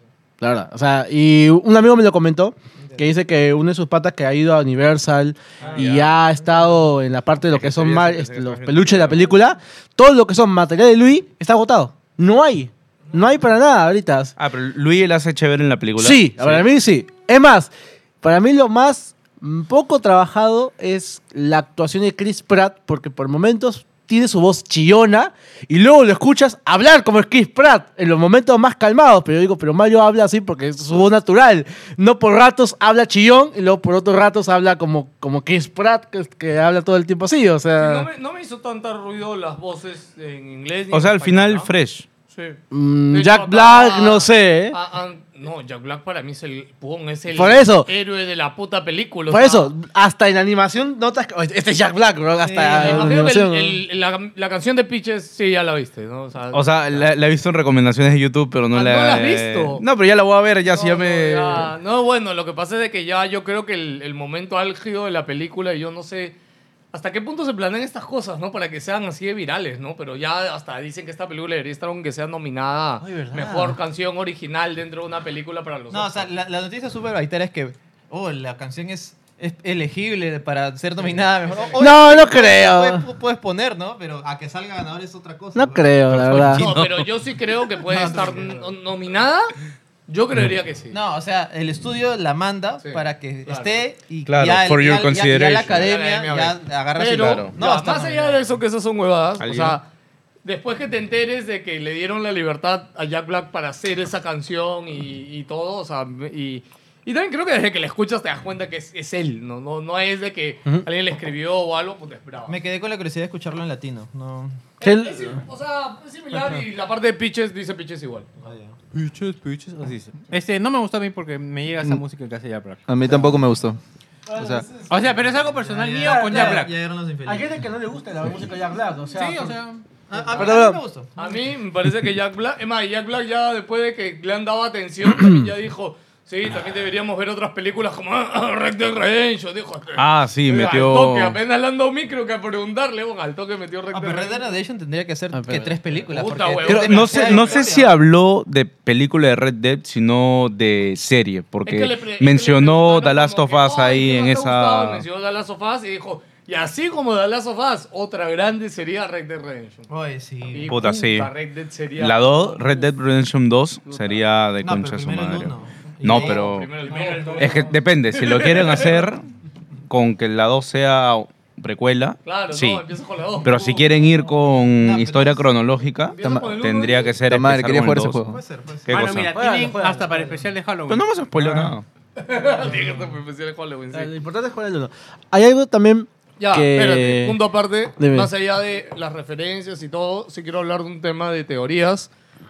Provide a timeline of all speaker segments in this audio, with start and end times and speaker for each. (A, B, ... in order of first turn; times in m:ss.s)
0:00.4-0:14.3 A
0:05.7-0:06.1 B
0:07.5-0:09.4 B
0:14.4-0:16.7 B
0:16.0-0:38.1 A
0:37.8-0:41.7 C
0:40.9-0:42.1 B
0:42.3-0:42.6 C
0:42.7-0:44.8 A
0:43.1-0:49.7 C
0:47.3-0:47.9 A
0:49.3-0:53.8 A
0:52.4-0:53.2 D
0:52.5-0:57.1 C
0:56.5-1:01.7 B
0:58.7-0:59.8 C
1:00.7-1:06.4 C
1:06.9-1:16.3 C
1:13.0-1:13.7 A
1:15.9-1:26.2 D
1:21.1-1:21.8 C
1:21.8-1:23.0 A
1:25.5-1:26.7 A
1:26.1-1:27.1 B
1:26.5-1:29.5 C
1:27.9-1:28.6 D
1:30.1-1:31.0 C
1:30.9-1:38.6 D
1:32.8-1:33.8 C
1:34.3-1:35.9 B
1:35.7-1:39.9 C
1:37.2-1:37.5 B
1:39.4-1:39.8 B
1:40.4-1:52.6 C
1:52.5-1:54.6 D
1:54.8-1:58.3 C
1:54.8-1:55.4 A
1:58.4-1:58.8 D
1:58.9-2:03.3 E
2:02.9-2:03.8 F
2:04.3-2:05.1 A
2:04.4-2:04.7 F
2:04.9-2:06.7 E
2:05.6-2:07.6 D
2:05.8-2:06.7 A
2:07.2-2:09.6 A
2:09.1-2:09.8 E
2:10.1-2:11.1 D
2:10.3-2:10.8 A
2:11.2-2:24.5 C
2:20.0-2:21.4 B
2:23.9-2:27.9 D
2:25.3-2:25.8 A
2:26.1-2:27.7 C
2:26.6-2:35.0 B
2:31.6-2:39.9 C
2:39.9-2:40.8 D
2:40.5-2:42.9 C
2:40.7-2:41.3 B
2:42.0-2:49.2 B
2:43.9-2:44.2 C
2:44.6-2:46.7 D
2:46.0-2:49.1 C
2:46.9-2:47.7 A
2:49.9-2:52.8 B
2:52.2-2:53.9 C
2:53.4-2:58.3 B
2:54.8-2:55.5 D
2:56.1-2:57.2 C
2:56.2-2:56.6 F
2:57.2-2:58.4 F
2:58.3-2:59.0 D
2:58.9-2:59.4 B
2:58.9-3:01.0 E
2:59.3-3:00.4 A
3:00.9-3:01.8 B
3:02.2-3:04.1 C
3:03.9-3:07.4 A
3:06.4-3:12.1 C
3:08.0-3:08.3 A